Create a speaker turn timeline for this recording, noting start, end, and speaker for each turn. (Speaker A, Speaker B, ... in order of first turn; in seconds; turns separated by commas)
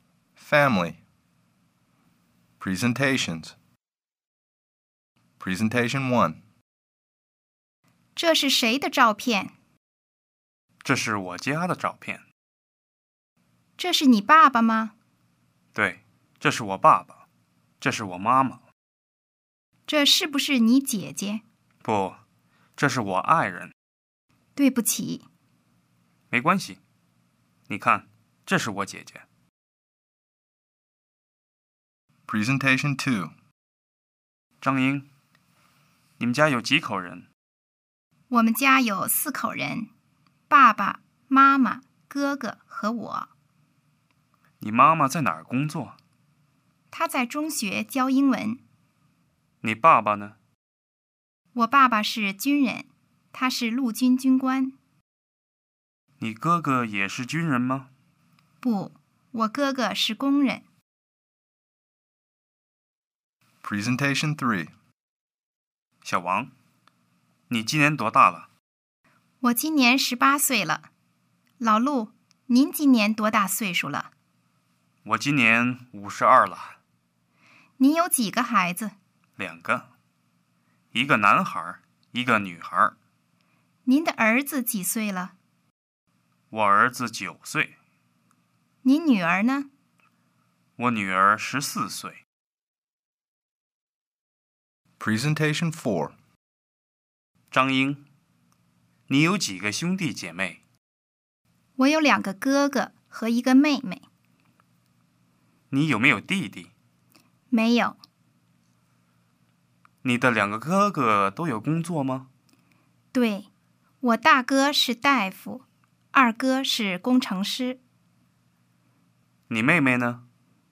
Speaker A: 0.4-1.0, Speaker A: 2.6-3.5, Speaker A: 5.4-6.4, Speaker B: 8.2-9.5, Speaker C: 10.8-12.2, Speaker B: 13.8-14.9, Speaker C: 15.7-17.2, Speaker C: 17.8-18.6, Speaker B: 19.9-21.4, Speaker C: 21.8-22.2, Speaker C: 22.8-23.7, Speaker B: 24.6-25.2, Speaker C: 26.3-26.8, Speaker C: 27.7-29.2, Speaker A: 32.3-33.3, Speaker C: 34.6-35.1, Speaker C: 36.2-37.2, Speaker B: 38.3-39.9, Speaker B: 40.5-43.3, Speaker C: 44.6-46.0, Speaker B: 46.9-48.6, Speaker C: 49.6-50.4, Speaker B: 51.5-54.7, Speaker C: 56.2-57.9, Speaker B: 58.6-60.6, Speaker A: 63.6-64.7, Speaker C: 66.0-66.5, Speaker C: 67.5-68.5, Speaker B: 69.4-70.9, Speaker B: 71.6-74.1, Speaker C: 75.0-76.8, Speaker B: 77.8-78.9, Speaker C: 79.4-79.9, Speaker C: 80.9-82.9, Speaker B: 83.8-85.3, Speaker C: 86.5-87.7, Speaker B: 88.8-89.7, Speaker C: 90.8-92.2, Speaker A: 95.0-96.1, Speaker C: 97.5-98.0, Speaker C: 99.1-100.6, Speaker B: 101.8-104.0, Speaker C: 105.7-106.7, Speaker B: 107.5-108.0, Speaker C: 110.0-112.3, Speaker B: 113.1-113.5, Speaker B: 114.0-117.8, Speaker C: 119.5-120.2